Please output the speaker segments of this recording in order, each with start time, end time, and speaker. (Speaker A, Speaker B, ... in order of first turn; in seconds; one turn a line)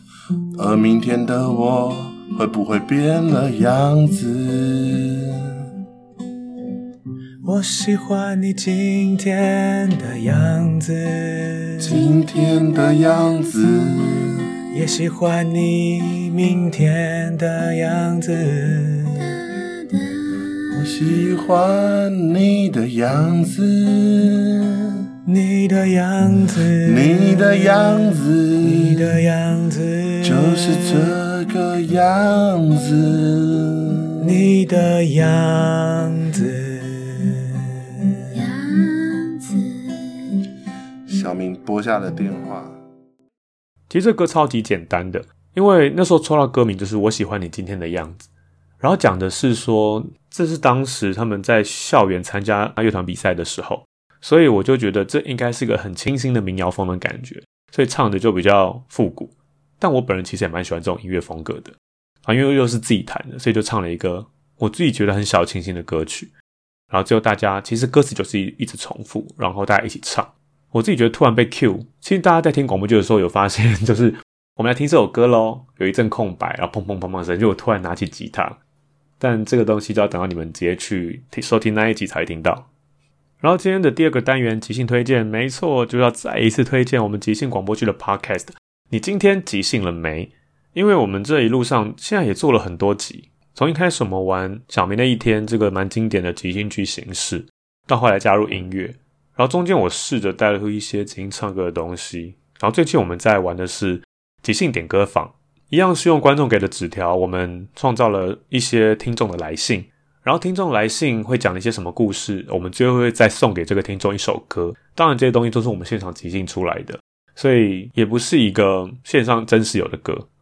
Speaker A: 0.6-5.7
Speaker B: 7.5-11.7
Speaker C: 7.7-8.4
Speaker A: 11.8-14.5
Speaker B: 14.8-19.6
Speaker A: 20.7-25.1
Speaker B: 25.3-26.3
Speaker C: 26.6-27.9
Speaker A: 26.8-29.3
Speaker B: 29.0-30.1
Speaker C: 30.1-30.7
Speaker A: 30.2-34.4
Speaker B: 34.5-37.8
Speaker A: 41.1-42.8
Speaker C: 43.9-48.3
Speaker C: 48.8-66.3
Speaker C: 66.9-78.6
Speaker C: 79.2-82.7
Speaker C: 83.4-120.3